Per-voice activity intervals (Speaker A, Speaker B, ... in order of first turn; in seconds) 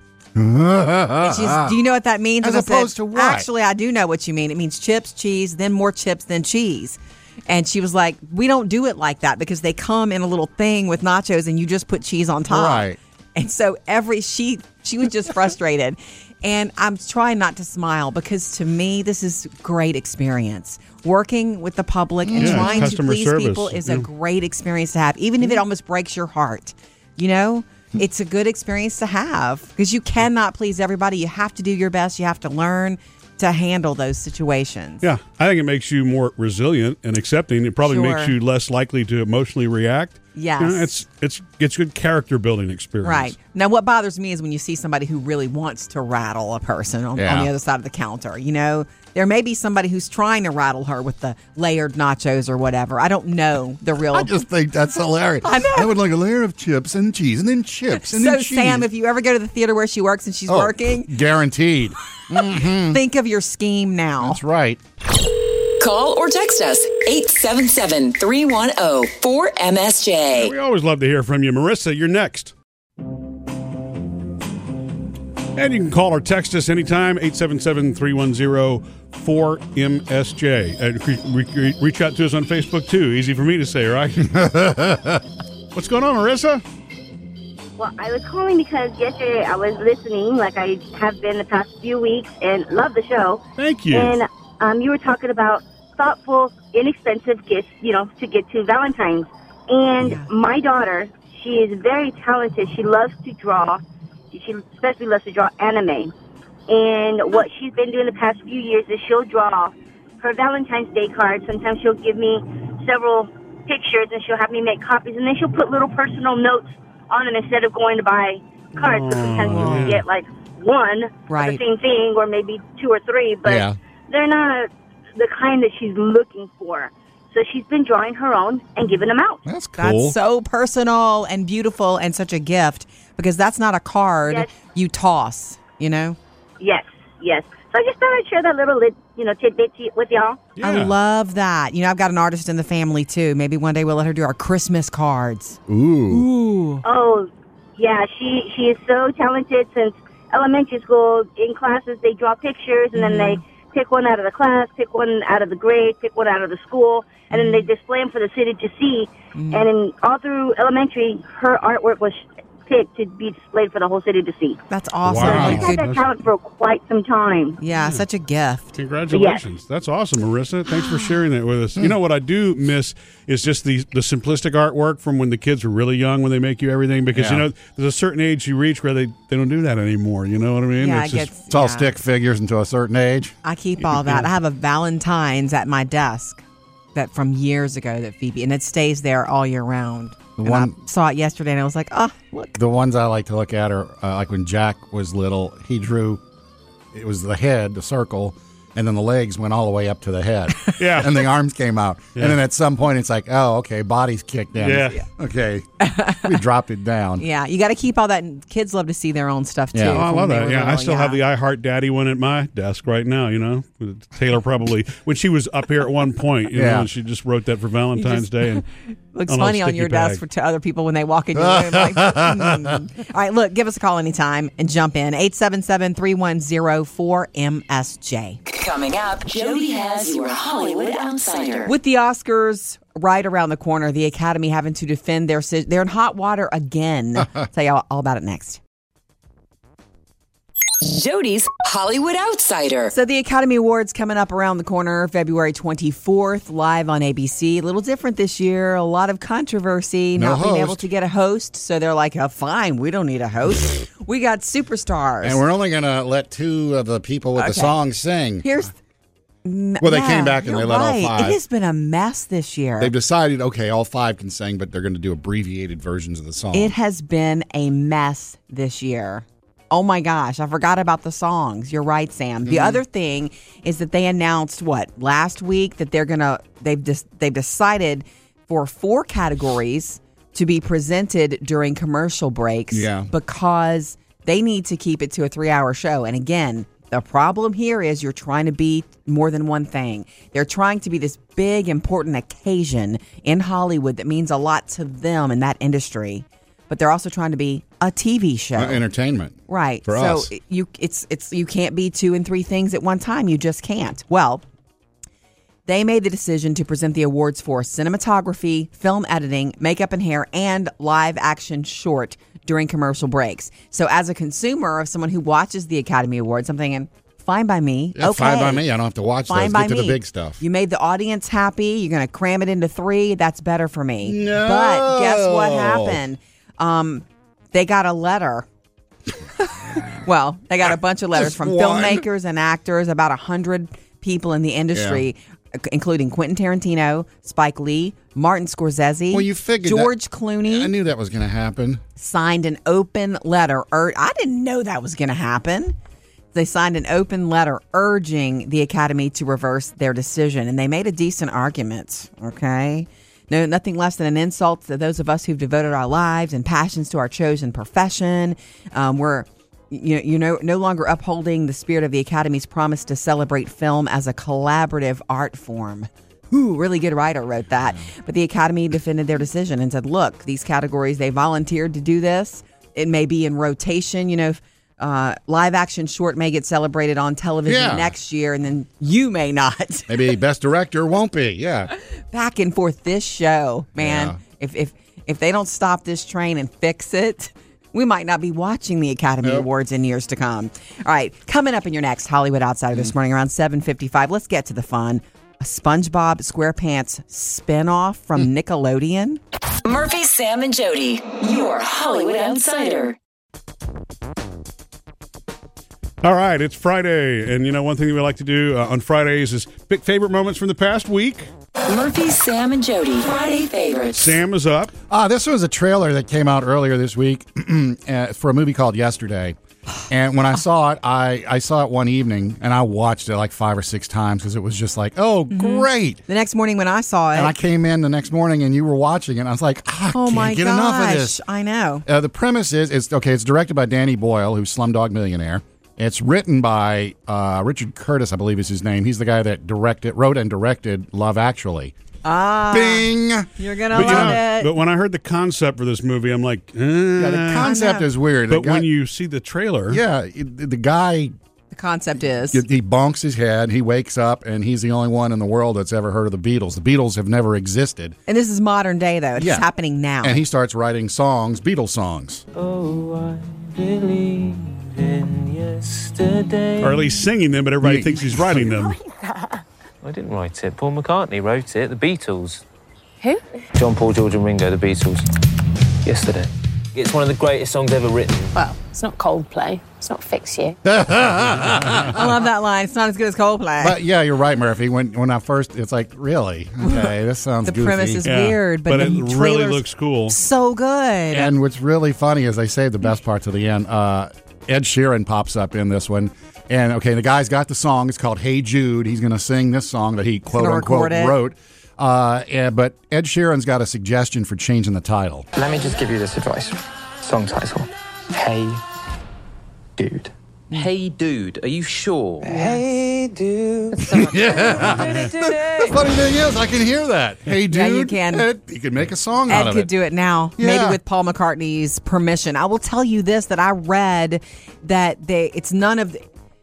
Speaker A: 0.3-1.8, 2.4-3.5, 12.5-13.0, 22.2-23.0, 47.1-47.5, 54.1-58.9, 60.5-63.0, 64.2-64.8, 84.2-85.2, 123.4-123.8, 129.4-130.2, 145.7-146.2, 165.2-165.7, 177.1-177.4, 181.5-183.3, 190.4-190.8, 192.6-196.2, 196.9-207.2, 209.7-210.1, 216.5-216.9, 221.4-222.8, 250.2-250.8, 255.2-258.5, 259.8-261.4, 262.8-266.7, 272.4-272.8, 282.7-283.1, 298.6-300.3, 317.9-320.4, 324.0-326.0, 331.1-332.1, 334.7-335.0, 339.1-341.8, 377.4-377.9, 379.9-381.7, 383.8-384.2, 414.9-419.4, 419.9-426.0, 427.1-431.2, 431.9-441.7, 442.5-444.2, 447.0-448.7, 449.7-451.1, 452.3-457.9, 459.1-459.4, 460.0-462.2, 467.6-468.5, 480.6-482.0, 483.6-488.0, 491.1-505.3, 513.9-519.7, 520.4-520.8
Speaker B: 1.2-35.0, 37.8-38.3, 40.3-40.9, 43.0-54.4, 55.4-55.9, 57.9-61.1, 62.6-64.4, 100.0-100.3, 119.5-119.9, 121.3-121.6, 129.8-136.2, 140.6-146.8, 152.9-153.4, 157.3-157.7, 159.3-159.7, 164.7-165.8, 167.6-168.8, 170.7-171.1, 180.8-181.9, 183.4-186.4, 186.9-192.6, 205.8-206.3, 207.2-211.2, 218.0-218.4, 219.1-228.4, 231.7-238.6, 242.9-255.4, 257.4-257.7, 258.4-258.7, 259.4-262.9, 266.5-298.8, 299.5-304.4, 305.7-318.6, 319.3-328.4, 329.4-340.7, 342.0-345.7, 346.3-380.0, 382.1-399.2, 425.3-427.3, 429.9-431.8, 442.0-444.5, 447.4-447.9, 451.5-452.4, 458.1-460.2, 481.9-483.8, 487.4-491.3, 500.3-501.1, 517.5-518.3, 519.3-526.0
Speaker C: 22.4-24.1, 35.0-43.3, 70.3-72.5, 75.5-84.3, 85.7-86.6, 93.6-94.2, 118.8-120.0, 140.6-140.9, 165.1-166.1, 167.8-168.0, 168.8-181.3, 183.9-184.2, 200.8-201.2, 204.6-205.0, 209.9-218.6, 219.3-220.2, 406.0-411.3, 413.9-414.7, 443.7-447.5, 448.3-449.8, 466.6-468.8, 488.0-490.2
Speaker D: 65.8-70.5, 228.5-231.7, 240.8-242.9, 399.6-402.9, 411.7-414.2
Speaker E: 87.8-106.1, 106.7-129.4, 136.6-140.4, 146.8-164.6, 165.2-167.6, 169.1-169.4
Speaker F: 462.3-467.0, 469.8-472.4, 473.5-475.0, 475.8-478.4, 505.3-508.6, 509.8-515.8
Speaker G: 468.7-469.3, 478.3-480.6